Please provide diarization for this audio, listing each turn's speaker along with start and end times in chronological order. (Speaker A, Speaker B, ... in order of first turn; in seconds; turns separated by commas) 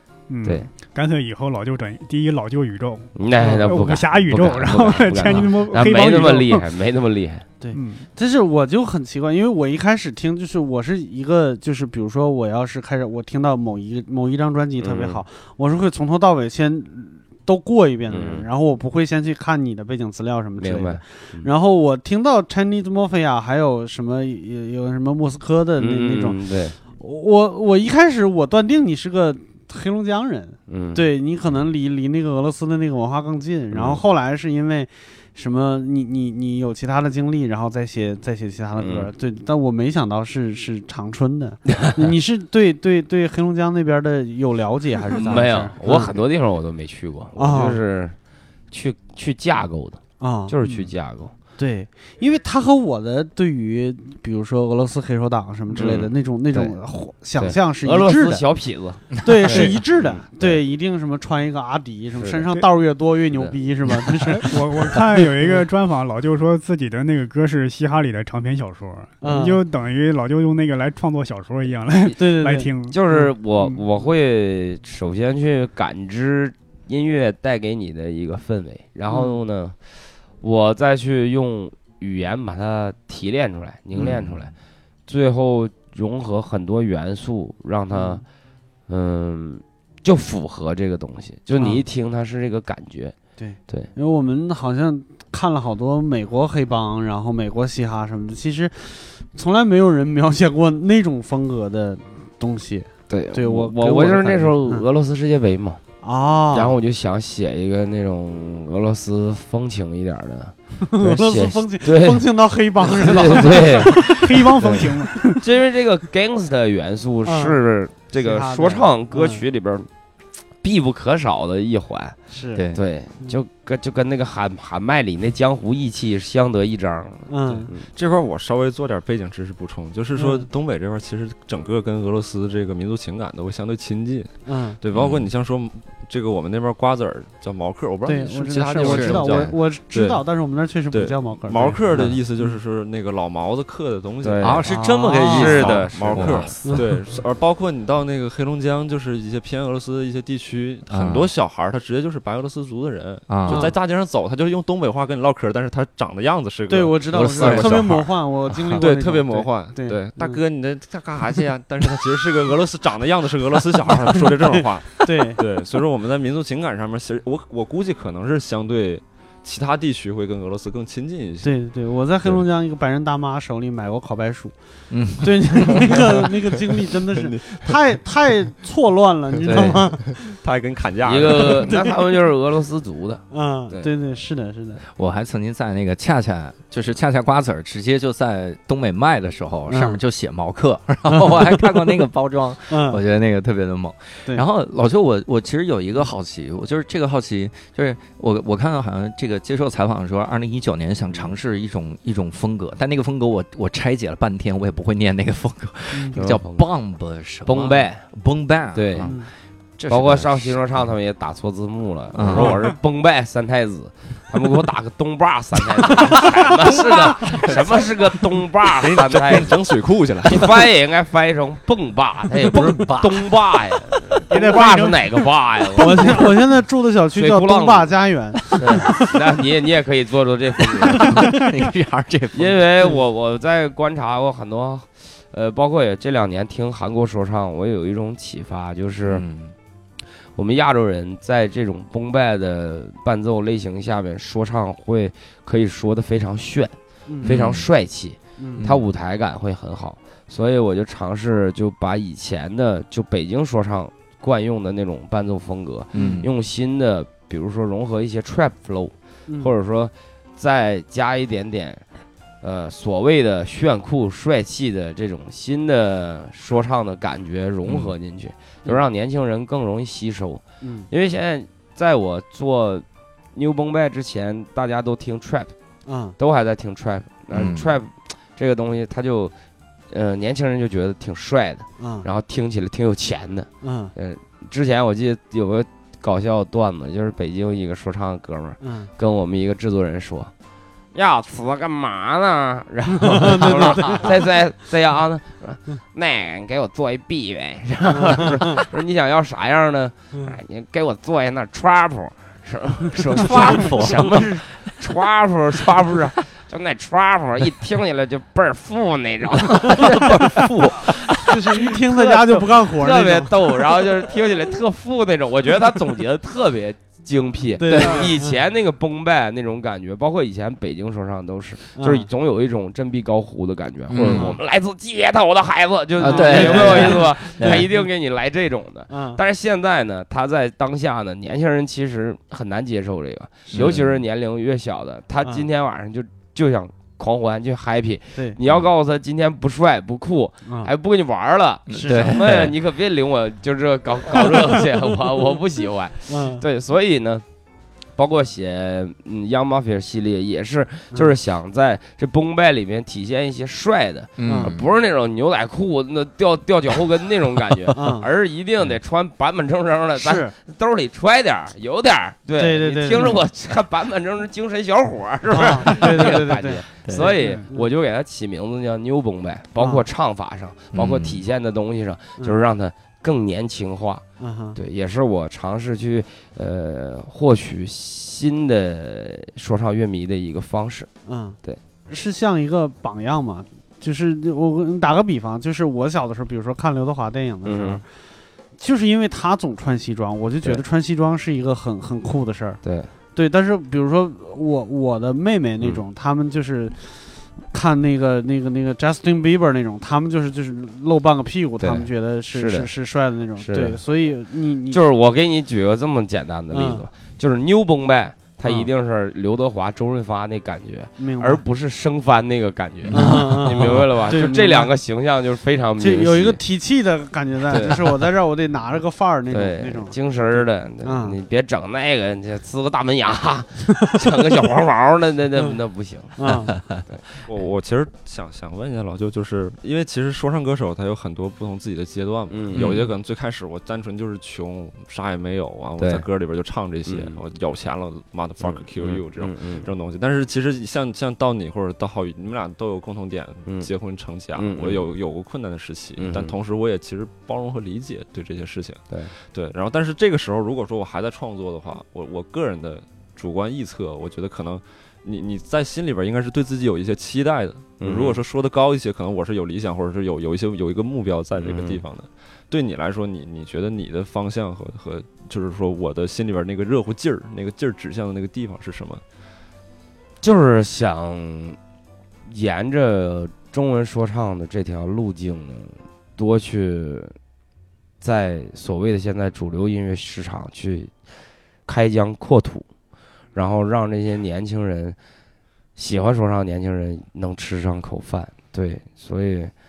Speaker A: 0.3-6.7, Speaker B: 0.4-0.7, Speaker B: 3.2-7.5, Speaker C: 7.6-46.1, Speaker A: 7.7-8.1, Speaker B: 14.8-15.2, Speaker B: 18.1-18.5, Speaker B: 20.6-21.5, Speaker B: 25.8-26.8, Speaker B: 30.7-31.0, Speaker B: 33.7-34.0, Speaker B: 38.8-39.1, Speaker B: 41.8-42.1, Speaker B: 45.2-48.2, Speaker A: 45.2-45.7, Speaker C: 47.4-47.8, Speaker B: 48.7-51.3, Speaker C: 50.2-50.5, Speaker A: 50.6-50.9, Speaker C: 51.6-58.5, Speaker B: 55.7-56.8, Speaker B: 57.4-60.6, Speaker C: 59.1-65.6, Speaker A: 59.5-59.8, Speaker B: 62.2-62.6, Speaker A: 64.2-73.0, Speaker C: 69.2-69.6, Speaker C: 72.1-73.3, Speaker B: 72.8-84.5, Speaker C: 79.1-79.4, Speaker D: 84.0-84.5, Speaker B: 85.1-88.2, Speaker C: 87.9-88.2, Speaker B: 88.9-93.2, Speaker C: 91.6-91.8, Speaker C: 93.4-104.8, Speaker B: 103.1-105.8, Speaker C: 106.0-106.7, Speaker B: 106.5-112.2, Speaker C: 110.9-114.0, Speaker B: 112.8-119.9, Speaker A: 113.9-115.5, Speaker C: 117.2-117.6, Speaker C: 118.1-119.5, Speaker B: 120.6-127.9, Speaker C: 122.3-122.6, Speaker D: 122.6-122.8, Speaker C: 127.3-127.7, Speaker E: 127.5-144.7, Speaker C: 130.2-130.5, Speaker C: 134.4-134.8, Speaker D: 134.9-135.3, Speaker C: 138.1-142.5, Speaker D: 138.5-139.5, Speaker B: 141.9-142.2, Speaker B: 144.2-146.8, Speaker D: 144.4-146.6, Speaker C: 144.7-145.6, Speaker E: 145.3-158.1, Speaker C: 146.6-146.9, Speaker D: 150.9-151.3, Speaker D: 153.3-153.7, Speaker C: 156.7-160.4, Speaker D: 157.1-157.9, Speaker E: 158.7-171.9, Speaker C: 165.0-165.4, Speaker C: 171.4-180.1, Speaker D: 174.9-175.9, Speaker E: 177.1-178.0, Speaker B: 179.4-180.0, Speaker E: 180.1-181.7, Speaker B: 181.0-183.9, Speaker C: 181.4-181.9, Speaker C: 183.3-184.8, Speaker D: 185.0-210.9, Speaker C: 189.7-190.0, Speaker C: 191.1-191.7, Speaker C: 192.7-193.0, Speaker C: 205.9-206.2, Speaker B: 206.2-206.7, Speaker B: 207.4-208.1, Speaker B: 208.7-209.2, Speaker C: 209.0-209.3, Speaker B: 209.9-226.3, Speaker D: 212.2-212.6, Speaker D: 216.6-218.1, Speaker E: 218.8-220.5, Speaker D: 222.6-223.3, Speaker A: 224.3-225.3, Speaker C: 225.8-228.8, Speaker B: 227.1-228.0, Speaker B: 228.5-231.5, Speaker D: 230.9-232.6, Speaker B: 232.3-239.2, Speaker D: 239.1-239.6, Speaker B: 240.3-261.9, Speaker C: 247.1-247.3, Speaker D: 247.2-247.7, Speaker C: 248.4-248.7, Speaker D: 248.6-248.9, Speaker D: 255.9-256.3, Speaker C: 255.9-256.2, Speaker B: 262.4-275.6, Speaker D: 267.6-267.9, Speaker C: 270.6-270.9, Speaker C: 275.9-276.2, Speaker B: 276.2-279.4, Speaker D: 277.3-277.7, Speaker B: 279.9-290.3, Speaker C: 281.8-282.1, Speaker C: 283.6-283.9, Speaker C: 288.6-288.9, Speaker B: 290.9-310.5, Speaker C: 293.1-294.1, Speaker C: 297.9-298.6, Speaker D: 303.1-304.8, Speaker D: 309.7-311.3, Speaker C: 311.3-313.3, Speaker B: 311.9-347.2, Speaker C: 317.6-318.4, Speaker D: 317.7-318.1, Speaker C: 321.8-322.1, Speaker D: 323.9-324.4, Speaker C: 324.1-324.4, Speaker C: 326.0-327.6, Speaker D: 326.0-327.7, Speaker C: 328.9-329.2, Speaker D: 333.5-334.0, Speaker C: 340.4-340.7, Speaker D: 341.7-342.5, Speaker C: 341.7-342.2, Speaker C: 346.1-346.4, Speaker B: 347.9-374.0, Speaker C: 350.9-351.2, Speaker D: 354.2-354.7, Speaker C: 354.2-354.5, Speaker C: 357.8-358.1, Speaker C: 360.0-360.4, Speaker C: 362.4-363.2, Speaker C: 365.3-367.7, Speaker D: 365.7-366.3, Speaker D: 366.8-367.1, Speaker A: 367.2-367.4, Speaker D: 370.7-371.2, Speaker C: 374.2-374.6, Speaker B: 374.6-380.9, Speaker C: 381.1-388.0, Speaker B: 387.4-387.8, Speaker C: 388.6-392.6, Speaker B: 392.6-392.9, Speaker C: 393.1-404.8, Speaker B: 401.6-402.7, Speaker B: 403.4-403.8, Speaker B: 404.7-416.4, Speaker C: 406.5-406.9, Speaker C: 411.0-411.4, Speaker D: 412.9-413.2, Speaker C: 412.9-414.7, Speaker C: 415.8-421.2, Speaker B: 417.5-417.8, Speaker B: 419.3-426.2, Speaker C: 426.2-426.5, Speaker D: 426.3-426.8, Speaker B: 426.7-427.0, Speaker E: 427.3-469.0, Speaker B: 432.3-432.8, Speaker D: 432.5-432.9, Speaker B: 435.8-436.1, Speaker B: 436.9-437.2, Speaker B: 438.4-439.7, Speaker B: 444.3-444.9, Speaker B: 446.0-446.3, Speaker B: 457.8-458.2, Speaker B: 461.4-461.8, Speaker B: 470.2-471.6, Speaker B: 472.3-477.2, Speaker B: 478.0-480.9, Speaker B: 481.6-482.7, Speaker B: 483.3-485.0, Speaker B: 485.8-489.5